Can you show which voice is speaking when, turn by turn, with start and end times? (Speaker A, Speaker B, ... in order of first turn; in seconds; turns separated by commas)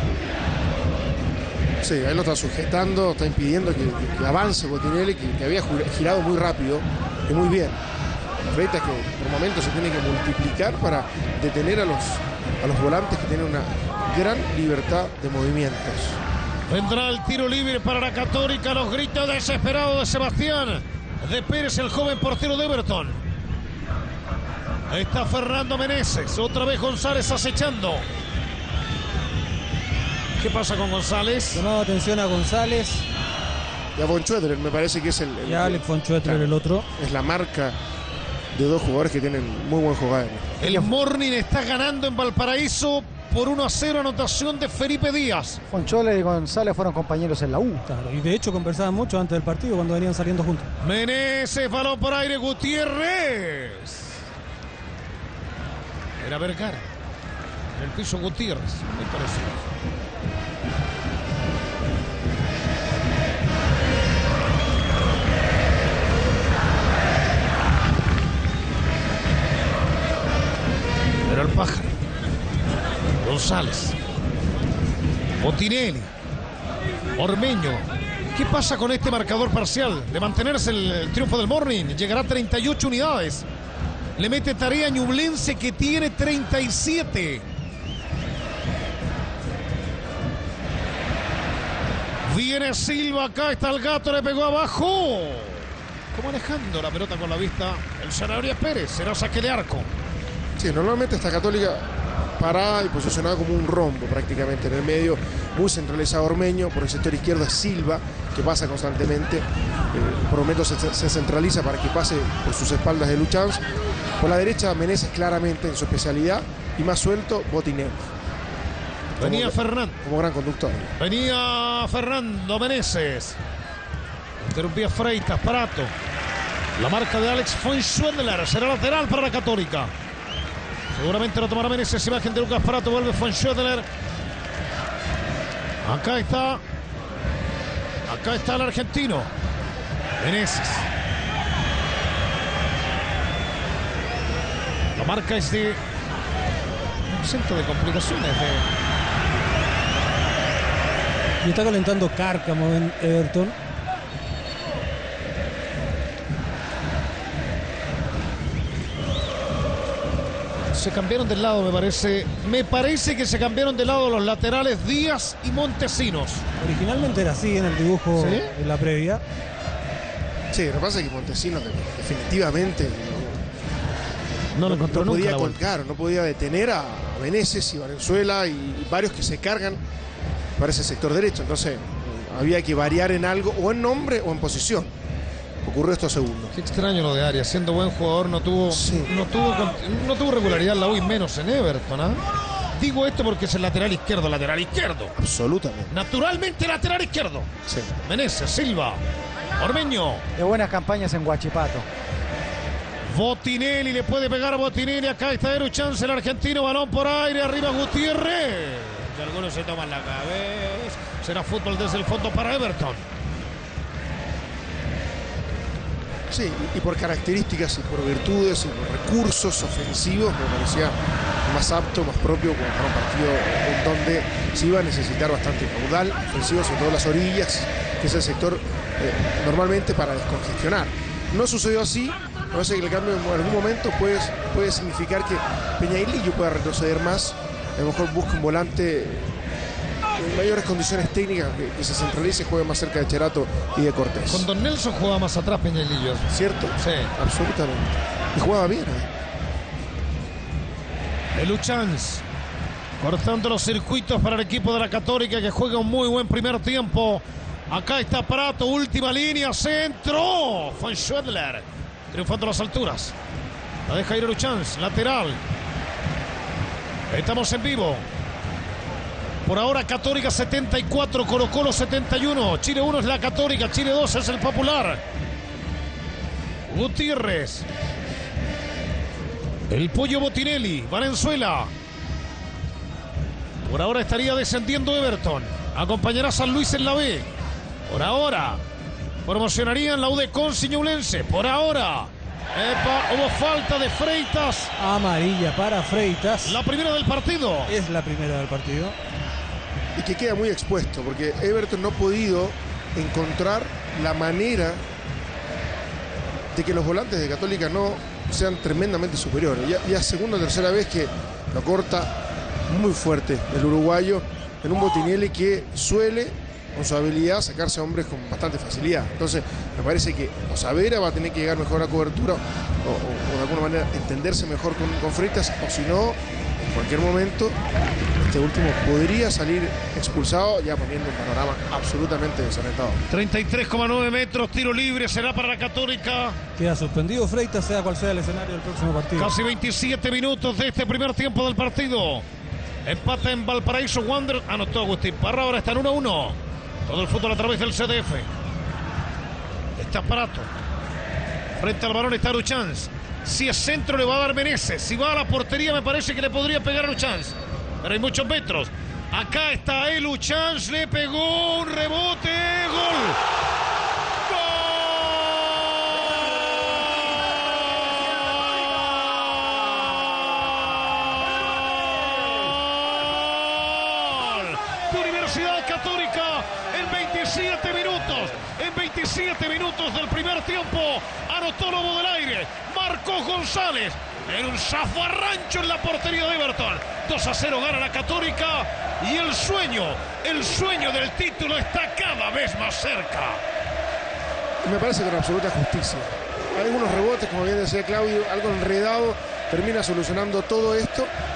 Speaker A: 1.8-7.8, Speaker A: 8.5-16.2, Speaker B: 16.7-23.2, Speaker B: 24.9-28.1, Speaker B: 30.4-31.6, Speaker C: 31.5-33.0, Speaker A: 34.0-37.8, Speaker C: 35.4-36.9, Speaker A: 38.5-40.6, Speaker B: 40.6-45.6, Speaker D: 40.6-40.9, Speaker D: 45.7-47.8, Speaker C: 47.9-50.7, Speaker B: 50.8-54.2, Speaker B: 56.2-56.9, Speaker B: 57.7-59.7, Speaker B: 71.2-71.9, Speaker B: 73.2-73.9, Speaker B: 75.4-76.1, Speaker B: 77.2-83.5, Speaker B: 84.2-87.4, Speaker B: 92.2-99.9, Speaker A: 100.6-113.6, Speaker A: 114.2-118.1, Speaker B: 119.2-120.0, Speaker A: 119.2-120.9, Speaker B: 121.0-123.4, Speaker B: 124.4-125.9, Speaker B: 126.8-129.9, Speaker B: 130.9-133.9, Speaker B: 135.8-136.6, Speaker B: 138.1-139.3, Speaker B: 140.2-140.9, Speaker B: 144.9-145.8, Speaker B: 147.1-148.7, Speaker C: 151.4-153.5, Speaker B: 160.7-166.4, Speaker C: 166.6-169.2, Speaker B: 168.1-168.5, Speaker A: 170.5-173.4, Speaker B: 174.5-175.6, Speaker A: 174.6-179.8, Speaker A: 180.6-184.9, Speaker A: 185.6-186.5, Speaker B: 186.5-192.2, Speaker A: 188.7-189.1, Speaker B: 192.7-195.1, Speaker A: 195.2-195.9, Speaker B: 195.9-197.5, Speaker A: 197.7-197.9, Speaker B: 198.0-199.0, Speaker B: 199.6-200.2, Speaker D: 200.3-201.9, Speaker B: 203.1-213.0, Speaker A: 216.3-239.4, Speaker A: 240.1-244.5, Speaker B: 244.3-247.1, Speaker A: 246.3-249.1, Speaker B: 251.3-252.2, Speaker B: 253.0-263.1, Speaker B: 263.9-265.4, Speaker B: 267.1-268.1, Speaker B: 269.4-275.0, Speaker B: 276.7-277.7, Speaker B: 279.7-281.7, Speaker B: 283.6-287.3, Speaker B: 287.9-288.6, Speaker B: 289.2-294.7, Speaker C: 294.8-296.6, Speaker B: 296.4-297.7, Speaker C: 297.7-298.9, Speaker A: 299.9-304.8, Speaker A: 306.5-312.1, Speaker A: 312.7-327.6, Speaker A: 328.2-333.0, Speaker B: 333.1-336.4, Speaker C: 336.6-339.3, Speaker B: 339.1-342.2, Speaker B: 342.8-348.3, Speaker B: 349.8-350.5, Speaker B: 351.6-363.2, Speaker B: 364.2-393.4, Speaker A: 394.6-401.1